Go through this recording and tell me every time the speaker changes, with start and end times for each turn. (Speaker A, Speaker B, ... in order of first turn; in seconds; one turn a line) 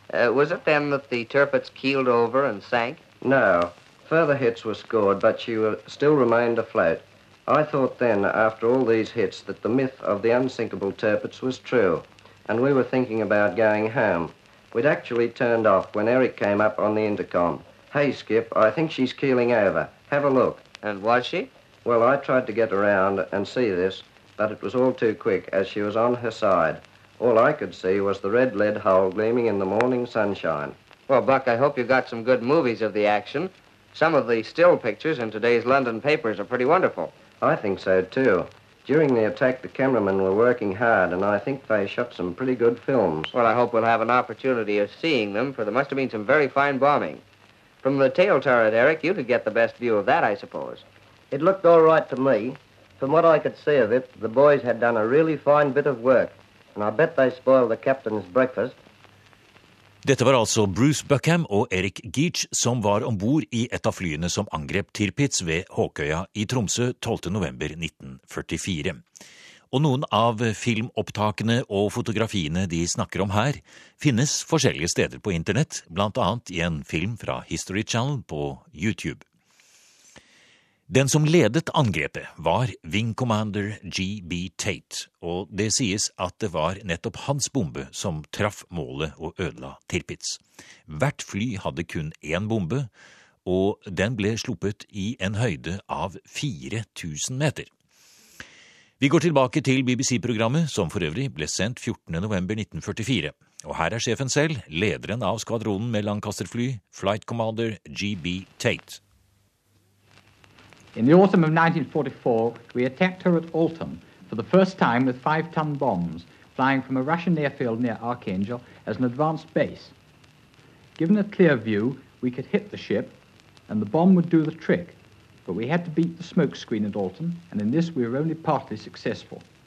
Speaker A: 0.1-3.0
Speaker B: 3.2-20.6
Speaker A: 20.8-21.5
Speaker B: 21.9-30.8
Speaker A: 31.1-37.1
Speaker B: 37.4-43.3
Speaker A: 43.3-47.2
Speaker A: 47.8-50.8
Speaker C: 51.3-58.8
Speaker D: 60.0-69.0
Speaker D: 69.7-79.2
Speaker D: 80.9-92.9
Speaker D: 93.5-97.7
Speaker D: 99.0-109.0
Speaker E: 111.0-119.9
Speaker E: 121.0-129.4